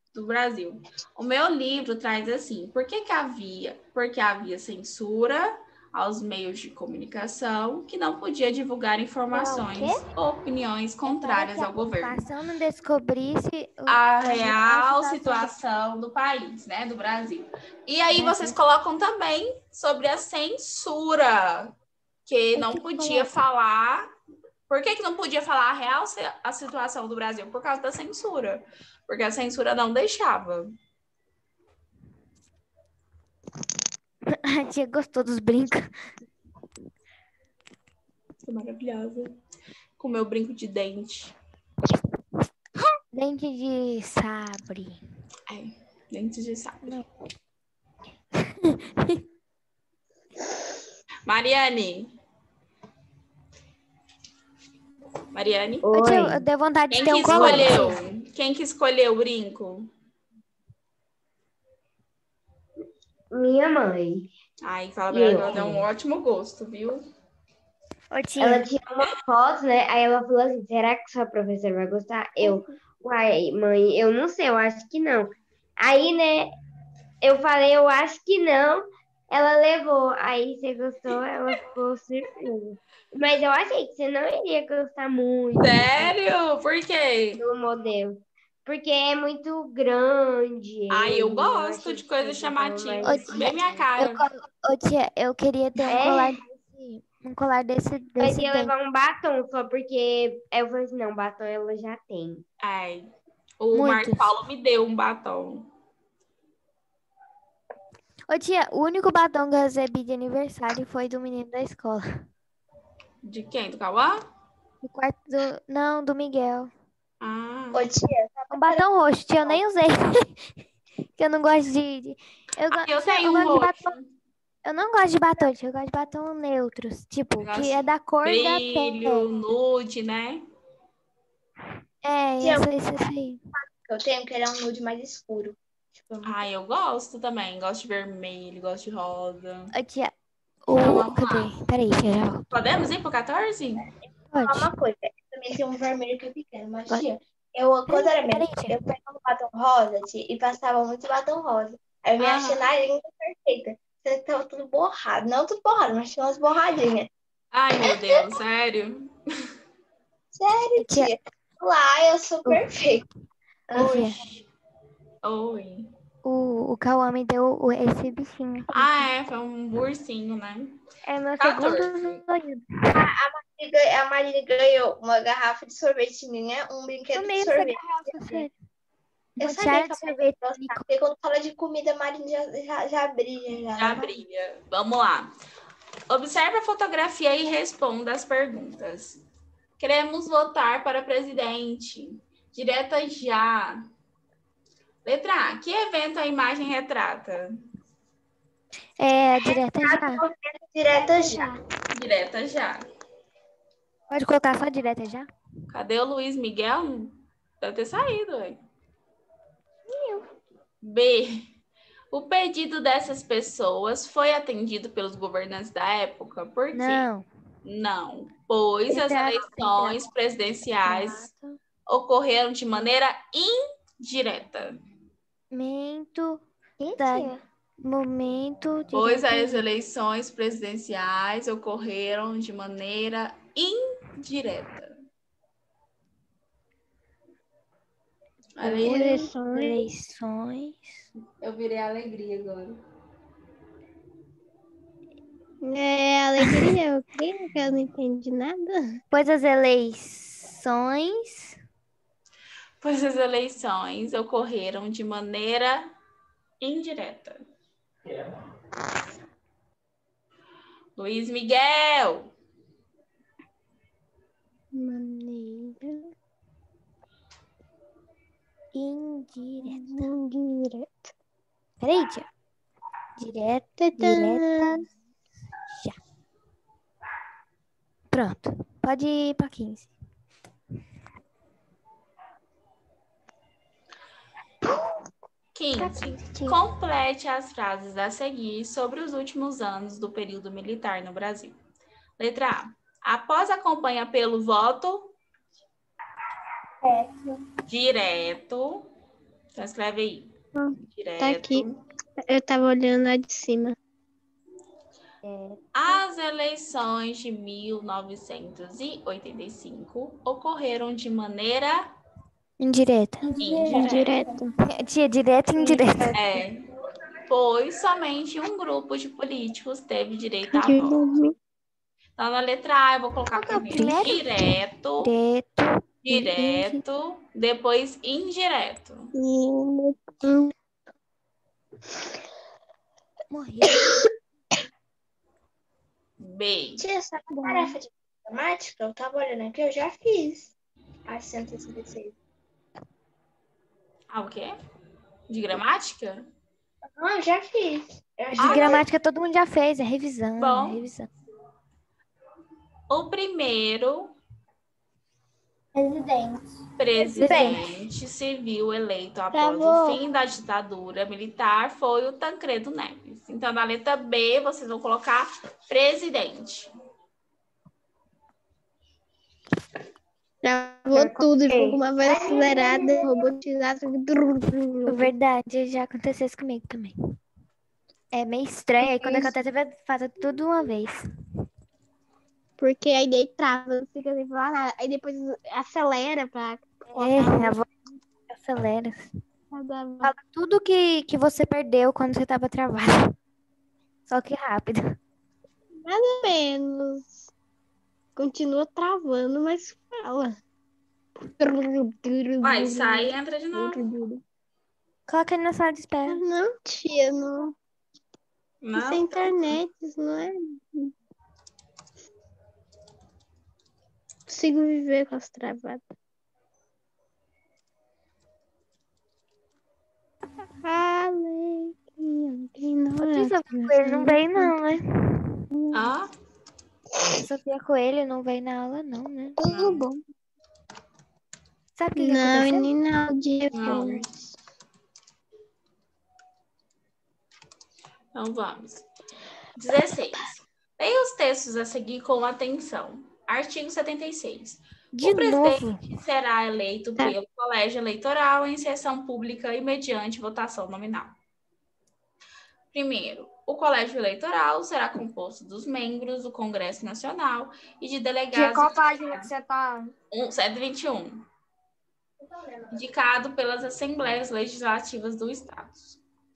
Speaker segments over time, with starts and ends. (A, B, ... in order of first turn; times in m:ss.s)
0:00.1-0:12.2 A
0:09.3-0:10.0 B
0:11.0-0:15.6 B
0:13.9-0:21.7 A
0:18.1-0:18.6 B
0:22.3-0:24.1 A
0:22.5-0:23.3 B
0:24.7-0:30.7 A
0:34.3-0:35.9 B
0:38.4-0:39.4 A
0:40.0-0:41.3 A
0:43.1-0:45.0 B
0:45.5-0:47.0 A
0:48.4-0:49.2 B
0:51.2-0:52.1 A
0:55.3-0:55.9 A
0:55.8-0:56.4 C
0:55.9-0:58.0 B
0:56.9-0:59.9 A
0:57.4-0:57.7 C
1:03.3-1:04.3 C
1:04.6-1:07.0 A
1:05.1-1:05.9 C
1:08.1-1:08.7 B
1:08.4-1:16.5 C
1:12.4-1:12.8 D
1:17.2-1:26.1 C
1:25.6-1:27.4 A
1:27.4-1:33.9 C
1:30.9-1:34.2 A
1:33.0-1:38.7 B
1:35.9-1:36.4 C
1:38.2-1:42.4 C
1:42.6-1:43.1 A
1:43.6-1:45.6 A
1:43.7-1:44.3 B
1:48.3-1:52.1 B
1:53.2-1:54.2 A
1:54.8-1:56.7 B
1:57.2-1:57.9 A
1:57.7-1:58.8 E
1:58.5-2:00.5 B
2:01.2-2:03.9 B
2:02.7-2:04.1 A
2:04.6-2:09.3 B
2:07.4-2:10.4 A
2:12.0-2:13.4 B
2:12.4-2:12.7 E
2:13.5-2:16.4 E
2:16.2-2:19.7 A
2:19.7-2:20.1 B
2:20.7-2:22.4 B
2:20.8-2:21.5 A
2:22.5-2:23.8 A
2:24.3-2:24.7 B
2:24.4-2:37.1 E
2:27.9-2:28.7 B
2:32.2-2:32.6 A
2:37.5-2:39.1 A
2:37.8-2:38.2 E
2:40.3-2:43.0 E
2:40.8-2:41.1 B
2:43.7-2:44.3 E
2:43.7-2:44.2 B
2:45.2-2:45.9 A
2:46.2-2:48.8 B
2:48.7-2:50.8 A
2:51.0-2:53.0 B
2:51.4-2:52.2 A
2:52.9-2:58.5 E
2:57.1-2:58.5 B
2:59.4-3:00.8 B
2:59.4-3:04.1 E
3:03.8-3:05.3 A
3:06.1-3:09.2 A
3:09.8-3:13.8 A
3:15.0-3:17.5 A
3:19.0-3:20.2 B
3:19.4-3:21.5 E
3:20.9-3:21.6 B
3:21.9-3:22.8 A
3:24.1-3:25.3 B
3:25.7-3:28.6 A
3:29.9-3:30.2 B
3:30.8-3:31.4 A
3:32.1-3:37.0 A
3:36.7-3:37.3 B
3:37.6-3:41.3 A
3:38.9-3:40.0 B
3:40.8-3:41.5 B
3:41.9-3:44.8 A
3:45.5-3:49.6 B
3:48.9-3:55.0 A
3:58.6-3:59.3 A
3:58.6-3:59.9 D
3:59.5-4:01.0 B
4:01.4-4:02.8 A
4:05.6-4:09.0 D
4:09.1-4:11.5 B
4:12.8-4:15.9 A
4:16.6-4:17.4 A
4:21.0-4:22.3 A
4:24.7-4:26.1 D
4:28.7-4:30.1 B
4:29.6-4:31.1 D
4:31.8-4:32.3 B
4:33.2-4:34.8 B
4:33.8-4:34.8 D
4:38.1-4:39.9 B
4:45.5-4:51.6 A
4:45.8-4:46.6 B
4:52.2-4:55.1 A
4:56.8-4:57.4 F
4:57.7-4:58.9 A
4:59.5-5:00.3 A
5:00.6-5:01.6 D
5:00.9-5:01.8 A
5:02.3-5:03.8 D
5:05.2-5:06.0 B
5:05.7-5:11.8 A
5:12.6-5:13.2 B
5:13.2-5:14.5 F
5:13.4-5:14.1 A
5:13.7-5:14.5 D
5:14.7-5:16.1 B
5:16.1-5:16.7 A
5:17.3-5:21.0 A
5:20.5-5:21.3 D
5:22.2-5:25.1 A
5:23.3-5:24.2 B
5:25.0-5:26.8 B
5:26.0-5:29.1 A
5:29.2-5:30.5 D
5:33.3-5:34.0 B
5:36.2-5:36.8 A
5:36.8-5:40.5 E
5:41.1-5:42.1 E
5:44.1-5:44.5 A
5:45.3-5:46.2 A
5:47.0-5:48.8 E
5:48.4-5:51.1 B
5:48.4-5:48.8 A
5:50.4-5:50.8 A
5:52.9-5:54.1 A
5:55.7-5:56.4 F
5:56.8-6:06.7 A
5:57.2-5:57.6 B
5:57.2-5:57.6 G
5:59.3-5:59.6 D
6:10.4-6:15.1 D
6:10.9-6:12.9 C
6:12.0-6:12.8 F
6:14.8-6:16.9 B
6:18.1-6:21.0 B
6:18.8-6:19.3 D
6:22.6-6:27.6 D
6:26.9-6:27.7 B
6:28.3-6:29.1 B
6:29.5-6:30.1 D
6:30.0-6:33.1 B
6:34.1-6:35.0 B
6:35.8-6:37.2 D
6:38.2-6:40.4 D
6:41.2-6:44.2 D
6:42.4-6:43.8 A
6:45.1-6:46.2 B
6:46.1-6:47.5 D
6:48.6-6:49.6 A
6:48.8-6:50.9 D
6:54.3-6:55.8 D
7:00.6-7:04.6 D
7:03.0-7:05.3 B
7:05.5-7:05.9 D
7:05.7-7:06.1 A
7:07.2-7:09.4 B
7:09.4-7:10.0 D
7:09.4-7:09.8 A
7:11.8-7:12.7 B
7:12.0-7:14.2 D
7:13.5-7:14.0 A
7:18.1-7:18.8 A
7:19.6-7:31.2 A
7:24.9-7:25.8 B
7:32.7-7:39.3 A
7:38.3-7:39.9 G
7:40.1-7:41.2 A
7:42.7-7:46.0 A